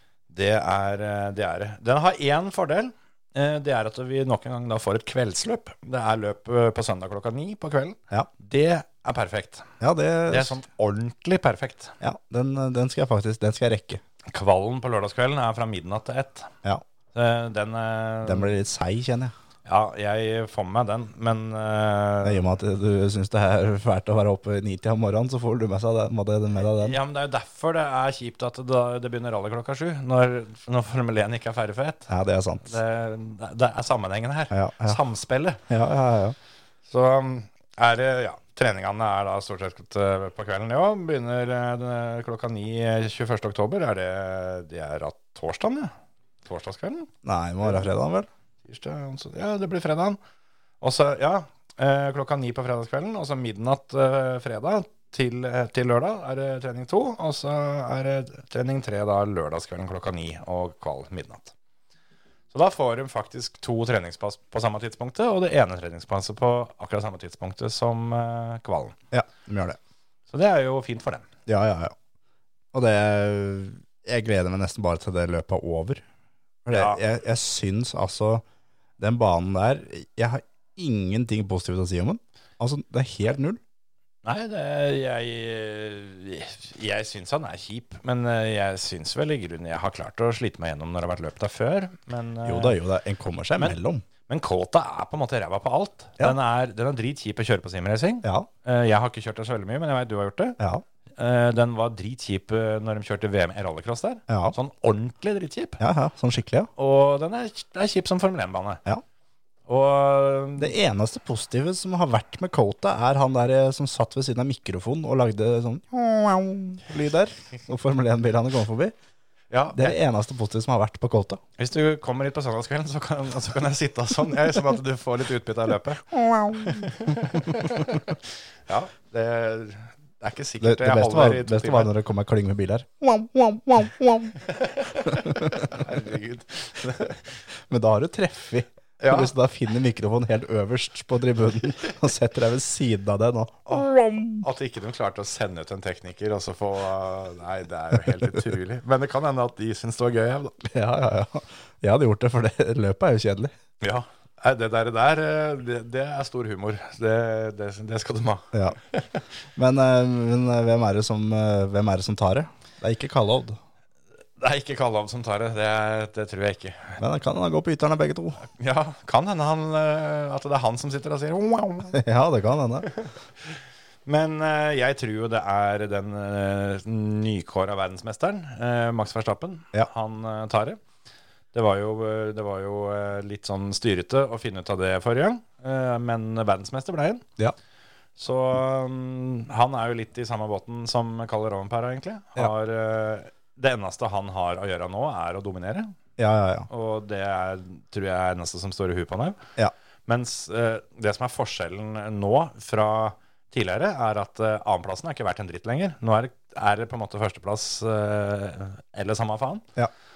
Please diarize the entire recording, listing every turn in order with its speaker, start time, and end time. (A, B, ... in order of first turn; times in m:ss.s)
0:00.3-0:09.7 A
0:09.8-0:10.6 B
0:10.3-0:11.9 A
0:12.0-0:14.0 B
0:14.3-0:16.5 A
0:17.1-0:18.5 A
0:18.2-0:19.3 B
0:19.6-0:22.4 A
0:22.2-0:27.0 B
0:26.7-0:32.1 A
0:32.1-0:32.8 B
0:32.6-0:35.6 A
0:34.5-0:35.0 B
0:35.7-0:36.4 B
0:36.8-0:45.9 A
0:46.4-0:47.1 A
0:47.2-0:48.3 B
0:48.6-0:50.2 A
0:50.8-1:01.5 A
1:02.5-1:09.0 A
1:09.1-1:09.8 B
1:10.3-1:11.2 A
1:11.5-1:11.9 B
1:12.7-1:16.0 B
1:16.6-1:18.4 B
1:16.7-1:17.0 A
1:19.0-1:23.6 B
1:24.2-1:32.8 A
1:32.4-1:34.0 B
1:33.6-1:40.6 A
1:41.2-1:45.8 A
1:44.3-1:44.5 B
1:45.8-1:46.7 B
1:46.8-1:48.8 A
1:49.7-1:50.7 A
1:50.6-1:58.9 B
1:59.5-1:59.9 A
1:59.7-2:01.4 B
2:01.6-2:11.9 A
2:06.1-2:06.9 B
2:10.6-2:14.4 B
2:14.5-2:17.2 A
2:15.0-2:15.8 B
2:17.7-2:24.4 B
2:19.0-2:19.3 A
2:24.4-2:30.6 A
2:30.6-2:33.5 B
2:33.8-2:39.2 A
2:39.6-2:43.6 B
2:44.4-2:47.0 A
2:47.0-2:48.4 B
2:48.6-2:52.0 A
2:51.9-2:52.9 B
2:52.9-3:00.8 A
3:01.5-3:07.2 A
3:08.2-3:15.9 A
3:16.2-3:16.7 B
3:16.7-3:19.4 A
3:20.1-3:29.6 A